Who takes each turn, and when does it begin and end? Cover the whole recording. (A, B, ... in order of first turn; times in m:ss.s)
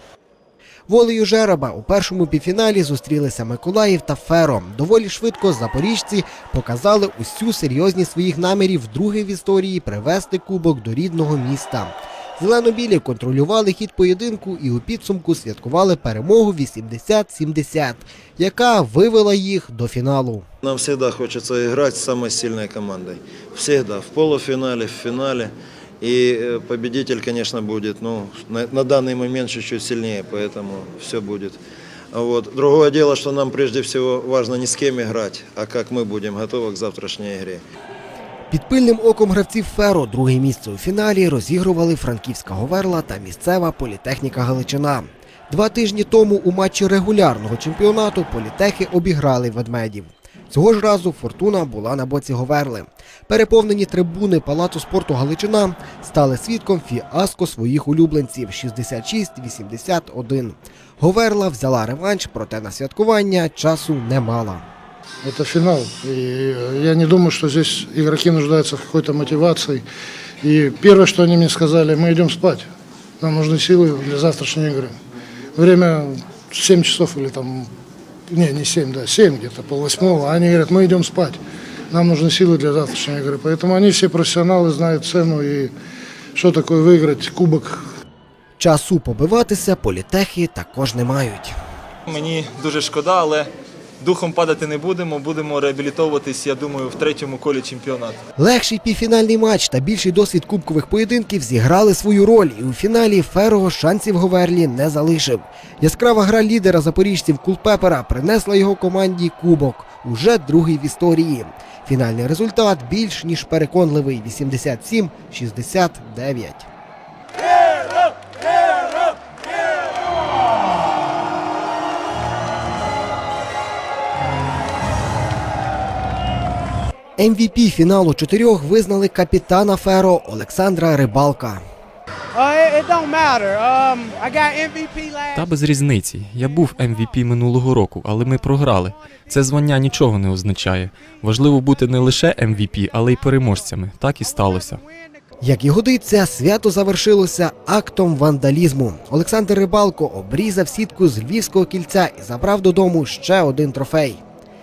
0:00.9-0:20.4 A
0:20.6-0:31.6 B
0:32.1-0:37.6 B
0:38.5-1:04.6 A
1:05.2-1:09.8 C
1:10.4-1:12.6 C
1:13.2-1:15.0 C
1:15.6-1:17.7 C
1:18.3-1:21.4 C
1:21.9-1:25.7 C
1:26.4-1:27.7 C
1:28.6-1:31.5 A
1:32.1-1:33.5 D
1:34.0-1:38.2 D
1:38.4-1:56.7 A
2:07.2-2:11.6 A
2:12.3-2:15.4 E
2:15.3-2:24.8 F
2:25.4-2:34.2 A